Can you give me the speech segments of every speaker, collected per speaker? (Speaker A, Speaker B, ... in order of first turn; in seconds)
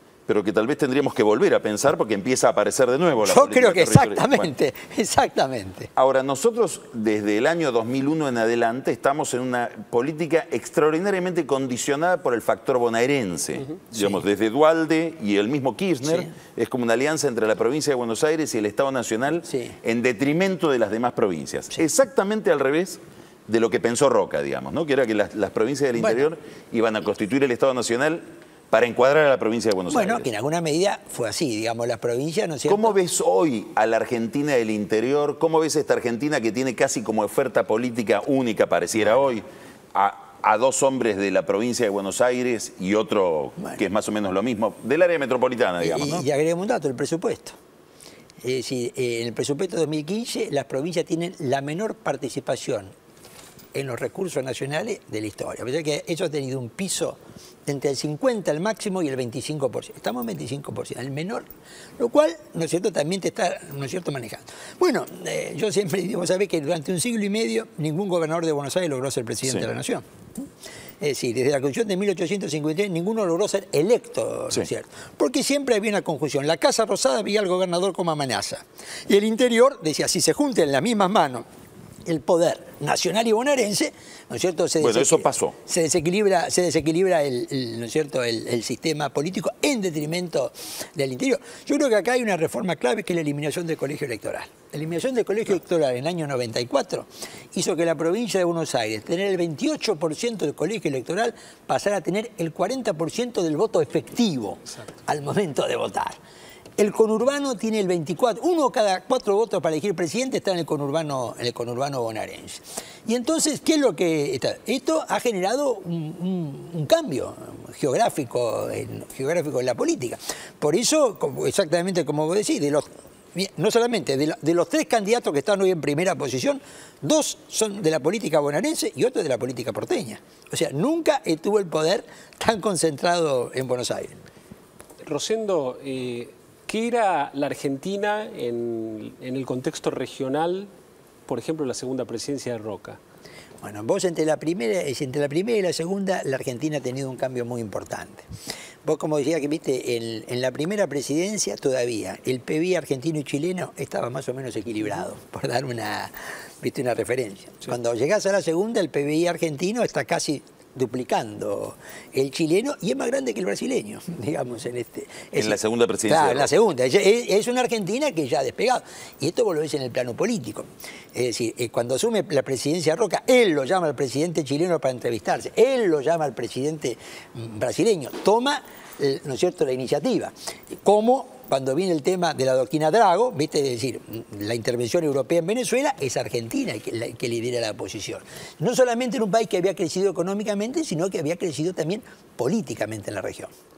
Speaker A: 0.3-4.5, 6.0-30.3, 32.7-46.3, 84.8-85.6, 165.3-166.5
Speaker B: 3.2-5.9, 16.0-16.3, 19.5-19.8, 26.0-26.3, 29.9-33.0, 45.8-47.5, 48.4-52.9, 53.7-61.4, 62.0-70.0, 71.0-81.5, 82.1-106.2, 106.8-134.2, 143.6-148.2, 148.8-193.5
Speaker C: 135.0-140.7, 141.3-143.0